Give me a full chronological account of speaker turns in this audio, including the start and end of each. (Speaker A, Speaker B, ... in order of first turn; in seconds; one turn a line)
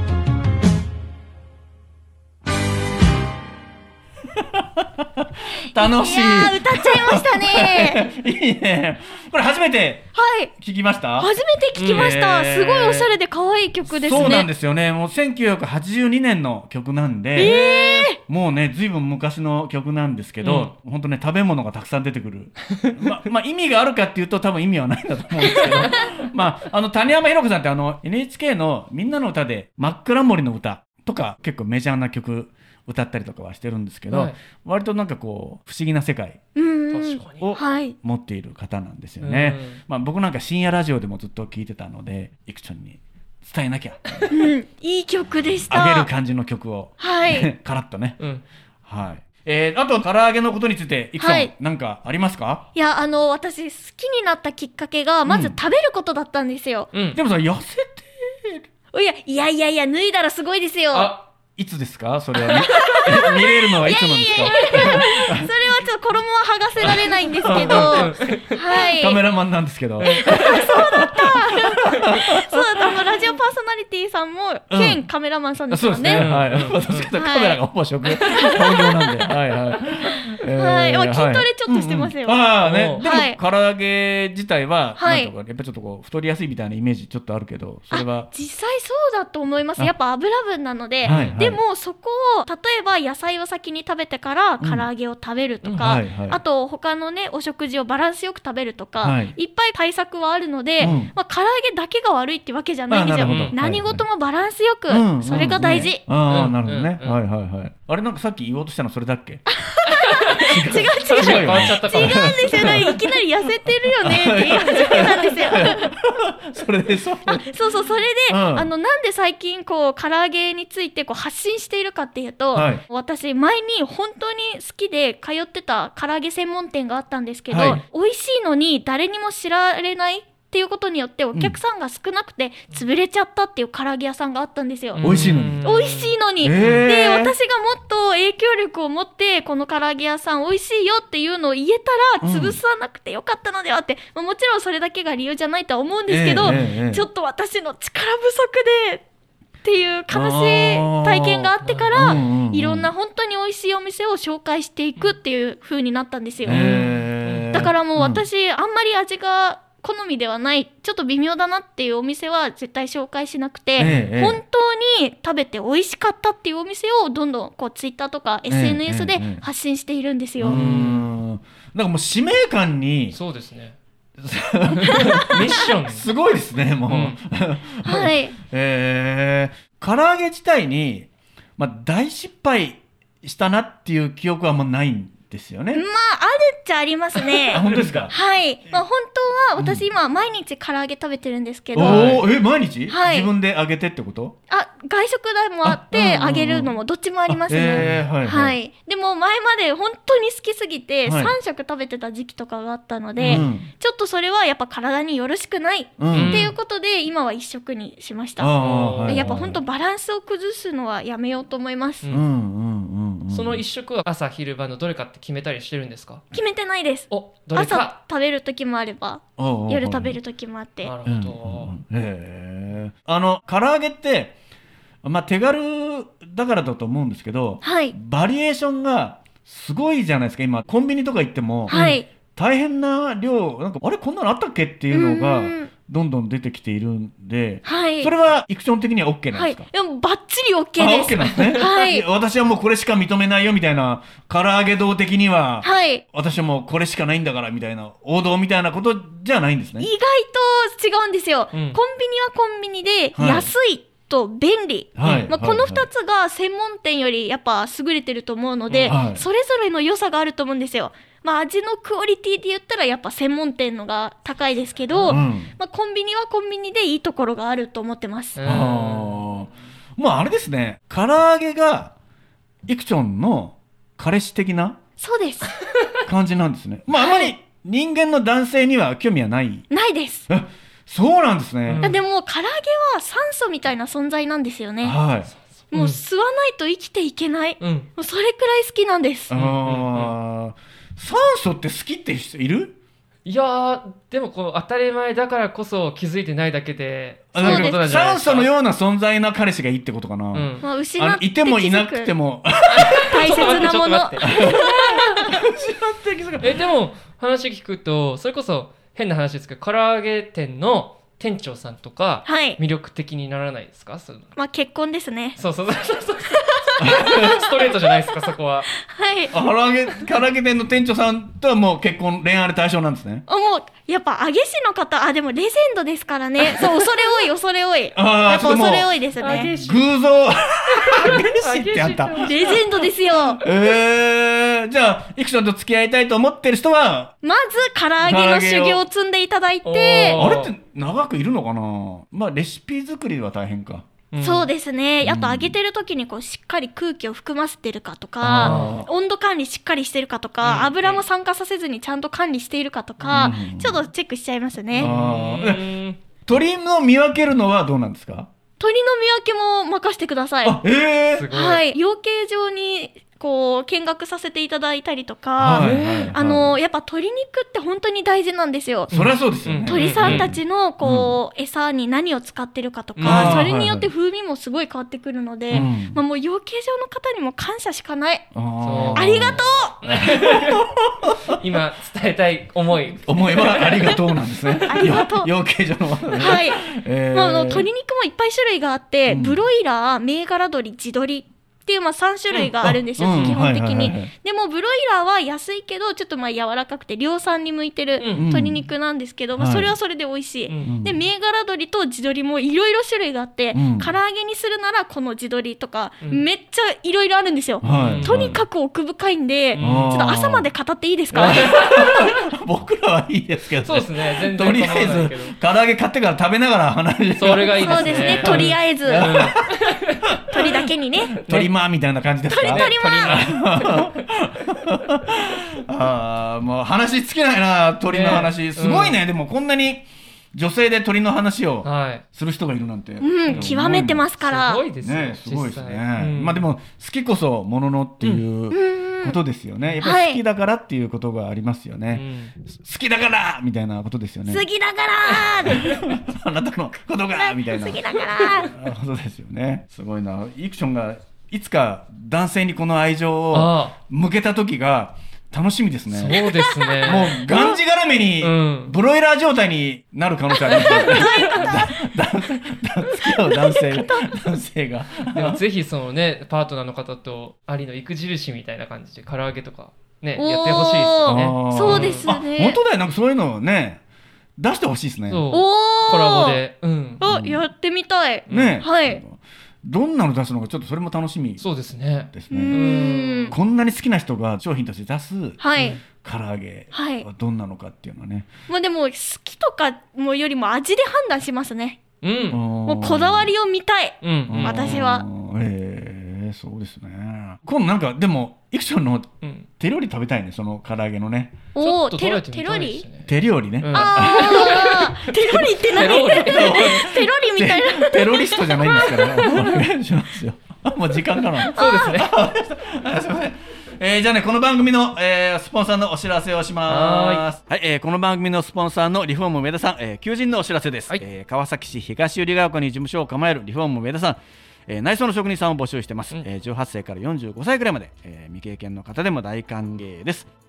Speaker A: 4.3-11.3
Speaker B: 5.7-8.1
Speaker B: 10.1-10.5
Speaker B: 11.2-14.5
Speaker C: 11.8-12.1
Speaker A: 11.9-13.1
Speaker A: 13.9-36.4
Speaker B: 17.4-18.2
Speaker C: 17.4-17.8
Speaker C: 20.4-20.7
Speaker B: 36.5-37.9
Speaker C: 36.9-37.5
Speaker A: 37.4-44.3
Speaker C: 39.2-39.8
Speaker B: 44.3-46.1
Speaker A: 45.7-48.2
Speaker B: 47.0-47.5
Speaker A: 48.8-52.6
Speaker B: 51.2-51.5
Speaker B: 52.7-56.9
Speaker A: 55.2-55.6
Speaker C: 56.9-57.2
Speaker A: 57.1-58.6
Speaker B: 58.9-61.1
Speaker C: 60.9-61.2
Speaker A: 61.6-65.5
Speaker B: 62.5-69.2
Speaker C: 64.5-65.0
Speaker A: 66.8-73.0
Speaker C: 67.4-68.6
Speaker C: 70.0-70.6
Speaker B: 70.0-76.4
Speaker A: 74.7-75.0
Speaker A: 75.7-88.3
Speaker C: 76.1-77.1
Speaker B: 77.1-77.6
Speaker B: 78.2-79.2
Speaker B: 80.5-83.4
Speaker C: 82.6-83.0
Speaker B: 85.0-85.3
Speaker B: 87.9-106.0
Speaker A: 91.0-91.6
Speaker C: 91.0-91.4
Speaker A: 94.6-94.9
Speaker A: 95.7-96.4
Speaker A: 99.0-99.3
Speaker A: 100.8-101.1
Speaker A: 102.9-104.0
Speaker C: 103.2-103.5
Speaker A: 104.9-109.4
Speaker C: 105.6-107.2
Speaker B: 109.5-115.9
Speaker C: 109.9-113.0
Speaker A: 110.4-112.9
Speaker A: 114.0-117.5
Speaker C: 114.7-115.1
Speaker B: 117.2-135.1
Speaker A: 118.3-118.7
Speaker A: 122.5-122.8
Speaker A: 127.5-127.8
Speaker C: 134.9-136.8
Speaker A: 135.0-135.6
Speaker B: 135.6-149.0
Speaker A: 136.4-137.3
Speaker A: 142.2-142.6
Speaker A: 146.1-147.1
Speaker C: 146.4-146.7
Speaker B: 149.6-156.6
Speaker A: 150.1-152.9
Speaker C: 151.6-152.2
Speaker C: 156.4-157.7
Speaker A: 156.4-158.2
Speaker B: 157.5-170.6
Speaker A: 163.8-164.4
Speaker C: 163.8-164.1
Speaker A: 168.5-169.4
Speaker A: 170.4-173.2
Speaker C: 170.4-171.1
Speaker C: 173.1-173.8
Speaker A: 174.2-185.8
Speaker C: 174.8-176.1
Speaker C: 176.9-177.2
Speaker B: 177.8-178.3
Speaker B: 185.7-192.3
Speaker C: 187.2-188.1
Speaker A: 187.5-188.1
Speaker A: 189.6-189.9
Speaker A: 191.7-194.3
Speaker C: 191.8-192.2
Speaker B: 192.9-193.3
Speaker B: 194.5-212.0
Speaker A: 195.6-196.7
Speaker A: 197.3-198.6
Speaker C: 197.7-198.0
Speaker A: 201.1-201.3
Speaker C: 203.2-203.5
Speaker A: 203.2-203.7
Speaker A: 206.0-206.4
Speaker C: 206.1-206.5
Speaker A: 208.4-209.6
Speaker C: 208.6-209.4
Speaker A: 212.1-213.6
Speaker C: 213.3-216.2
Speaker B: 216.3-220.9
Speaker C: 217.1-217.9
Speaker A: 219.4-220.2
Speaker C: 220.8-221.8
Speaker A: 221.1-224.3
Speaker A: 225.0-239.6
Speaker B: 227.6-227.9
Speaker B: 231.7-232.1
Speaker C: 231.7-232.0
Speaker B: 234.9-235.7
Speaker B: 237.6-238.1
Speaker B: 239.3-242.0
Speaker A: 240.8-249.9
Speaker B: 245.6-246.0
Speaker B: 249.8-268.4
Speaker C: 251.5-251.8
Speaker A: 253.1-253.5
Speaker A: 254.9-255.9
Speaker C: 255.0-255.3
Speaker C: 258.7-259.0
Speaker A: 258.9-259.2
Speaker C: 264.9-265.2
Speaker A: 265.1-265.5
Speaker C: 268.4-269.4
Speaker A: 268.4-271.9
Speaker A: 272.7-274.8
Speaker B: 275.0-275.5
Speaker A: 276.0-279.6
Speaker B: 276.9-277.3
Speaker B: 279.7-280.3
Speaker A: 280.3-281.9
Speaker C: 281.6-282.0
Speaker B: 281.8-285.0
Speaker A: 284.8-285.3
Speaker C: 285.3-286.0
Speaker B: 285.7-289.3
Speaker C: 287.6-287.9
Speaker A: 289.3-292.8
Speaker C: 289.3-290.1
Speaker C: 293.2-298.5
Speaker A: 297.3-303.6
Speaker B: 297.4-297.8
Speaker C: 300.3-300.6
Speaker B: 300.6-302.1
Speaker C: 302.8-305.4
Speaker B: 303.0-305.1
Speaker A: 304.3-306.6
Speaker C: 306.4-314.3
Speaker B: 312.2-312.6
Speaker B: 314.3-315.4
Speaker C: 315.4-318.8
Speaker B: 316.3-317.5
Speaker A: 316.8-317.5
Speaker B: 318.8-319.3
Speaker A: 319.3-323.2
Speaker B: 323.3-329.5
Speaker A: 327.9-332.6
Speaker C: 329.2-329.9
Speaker C: 330.7-332.8
Speaker B: 332.2-333.4
Speaker A: 333.4-337.1
Speaker B: 337.2-340.2
Speaker A: 338.0-338.8
Speaker C: 339.6-340.5
Speaker A: 340.1-343.9
Speaker C: 344.1-344.5
Speaker B: 344.2-354.9
Speaker A: 345.0-345.6
Speaker A: 348.2-348.9
Speaker C: 348.4-348.8
Speaker C: 350.4-351.0
Speaker A: 353.0-353.8
Speaker C: 354.7-356.0
Speaker A: 354.8-358.3
Speaker B: 358.6-360.6
Speaker A: 360.4-361.3
Speaker C: 361.1-361.6
Speaker B: 361.3-368.9
Speaker A: 365.4-366.6
Speaker C: 365.6-366.1
Speaker A: 368.9-371.2
Speaker C: 368.9-370.3
Speaker B: 369.6-378.3
Speaker C: 372.9-373.4
Speaker A: 373.0-373.9
Speaker A: 375.5-376.0
Speaker A: 378.3-381.4
Speaker C: 378.6-380.7
Speaker B: 378.9-379.8
Speaker C: 381.3-385.0
Speaker A: 382.9-387.7
Speaker B: 384.6-385.3
Speaker B: 386.2-411.5
Speaker A: 389.1-389.4
Speaker A: 392.6-394.1
Speaker C: 398.0-398.3
Speaker A: 398.1-398.6
Speaker A: 399.3-399.7
Speaker C: 400.5-400.7
Speaker A: 400.6-401.0
Speaker A: 403.5-403.9
Speaker A: 407.6-408.4
Speaker C: 407.6-408.3
Speaker C: 409.5-410.0
Speaker A: 409.6-410.5
Speaker A: 411.1-434.1
Speaker C: 411.1-412.2
Speaker C: 413.6-415.4
Speaker C: 417.2-420.2
Speaker B: 417.6-419.4
Speaker B: 420.3-421.2
Speaker C: 421.2-421.5
Speaker B: 422.3-423.3
Speaker C: 422.4-424.3
Speaker C: 427.8-429.0
Speaker C: 431.6-432.0
Speaker B: 433.0-434.6
Speaker C: 433.2-436.4
Speaker A: 434.8-444.4
Speaker B: 438.5-439.1
Speaker B: 439.8-440.2
Speaker C: 441.9-442.3
Speaker B: 444.3-445.8
Speaker C: 445.1-445.7
Speaker A: 445.4-456.3
Speaker B: 447.1-448.5
Speaker C: 453.3-453.7
Speaker C: 455.9-457.3
Speaker B: 456.2-457.4
Speaker A: 456.8-465.4
Speaker C: 458.2-458.8
Speaker B: 460.4-461.7
Speaker C: 460.6-461.2
Speaker C: 465.1-472.1
Speaker B: 470.2-472.6
Speaker A: 471.1-473.8
Speaker A: 474.4-475.2
Speaker C: 475.1-477.0
Speaker B: 475.3-476.4
Speaker B: 477.0-479.0
Speaker A: 477.0-477.4
Speaker C: 478.3-478.6
Speaker A: 478.3-481.4
Speaker C: 481.4-483.3
Speaker A: 482.1-482.6
Speaker B: 482.3-483.3
Speaker A: 483.3-488.3
Speaker B: 485.4-485.8
Speaker B: 486.7-487.1
Speaker B: 488.5-491.8
Speaker C: 492.0-492.4
Speaker A: 492.3-493.3
Speaker B: 492.6-495.1
Speaker C: 494.0-494.8
Speaker A: 494.3-501.4
Speaker C: 499.2-499.5
Speaker B: 501.5-502.8
Speaker C: 501.6-506.8
Speaker A: 503.1-504.8
Speaker B: 503.7-509.6
Speaker A: 506.1-530.3
Speaker C: 511.5-512.1
Speaker B: 511.5-512.0
Speaker C: 516.7-517.3